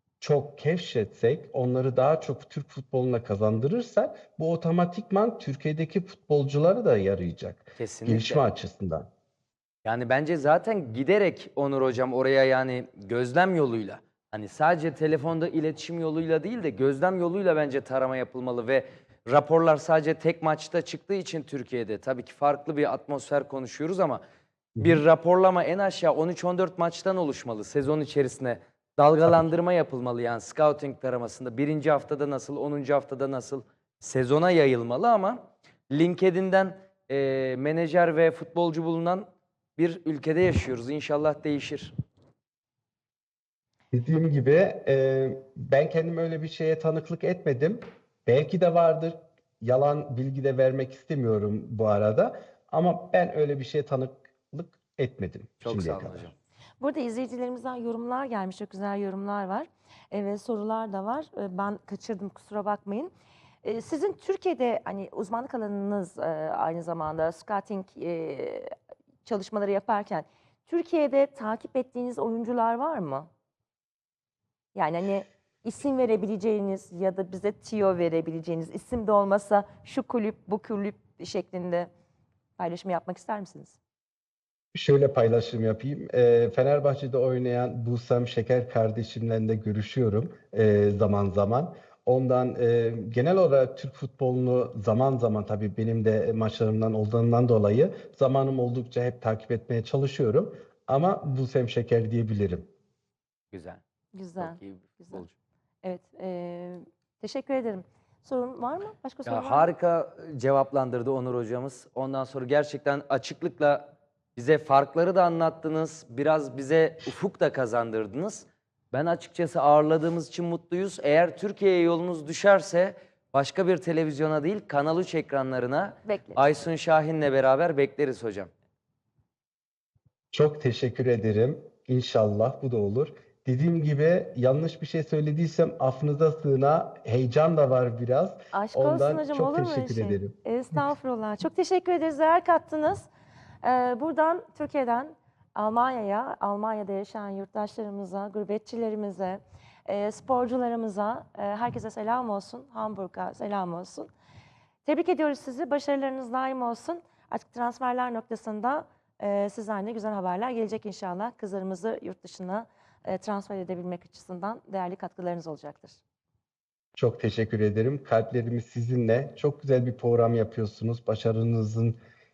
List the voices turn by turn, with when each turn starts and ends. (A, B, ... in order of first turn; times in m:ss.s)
0:00.2-0:09.1 A
0:07.8-0:08.4 B
0:09.8-0:24.2 B
0:24.8-0:25.0 A
0:24.8-0:41.9 B
0:43.9-0:56.3 A
0:55.6-0:56.3 B
0:56.8-1:03.1 C
1:03.6-1:08.7 C
1:09.2-1:13.3 C
1:14.8-1:21.9 C
1:22.6-1:23.8 C
1:24.8-1:42.7 A
1:43.5-1:43.8 B
1:44.1-1:45.2 C
1:44.4-1:45.3 B
1:45.8-1:49.7 C
1:49.3-2:08.5 B
2:06.0-2:06.5 C
2:10.3-2:20.4 A
2:18.5-2:23.1 C
2:23.6-2:34.1 C
2:34.8-2:46.0 C
2:47.0-2:52.0 A